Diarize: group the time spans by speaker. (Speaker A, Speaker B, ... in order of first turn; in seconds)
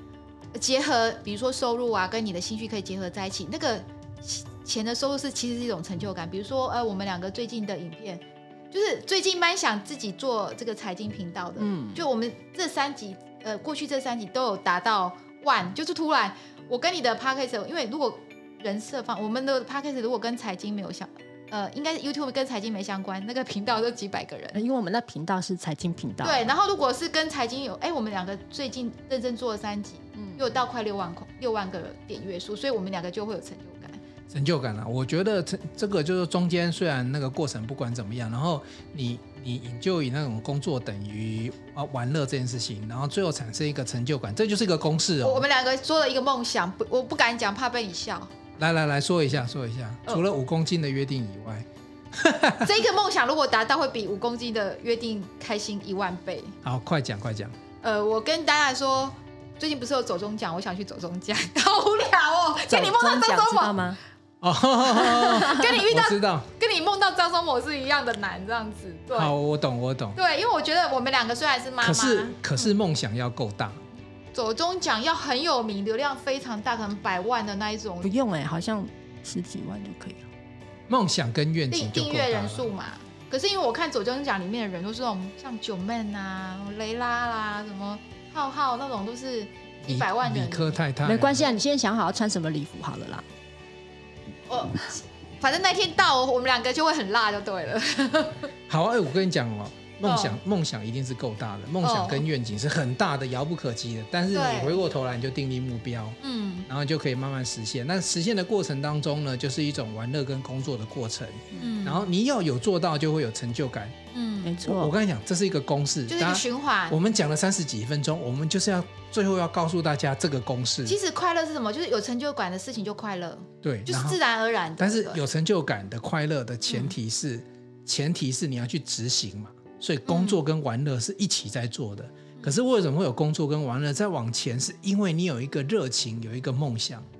Speaker A: 0.5-24.6, 26.2-34.0, 45.2-48.3, 52.6-56.5, 57.8-63.8, 64.8-69.3, 70.2-72.7, 74.3-78.1, 81.7-90.8, 94.5-98.5, 100.0-100.4, 101.8-102.2, 104.3-104.8, 106.2-106.7, 111.5-112.1, 114.1-114.6, 116.1-117.0, 120.8-125.2, 126.7-126.9, 130.1-130.4
Speaker B: 11.6-12.0, 24.5-26.5, 30.1-30.5, 62.7-64.0, 78.0-80.2, 91.0-93.2, 114.4-114.9
Speaker C: 34.3-45.4, 48.6-52.8, 56.6-57.5, 64.4-66.5, 69.1-70.2, 71.8-73.8, 80.9-82.7, 89.8-91.5, 98.7-114.0, 114.6-121.0, 123.6-124.2, 124.8-137.1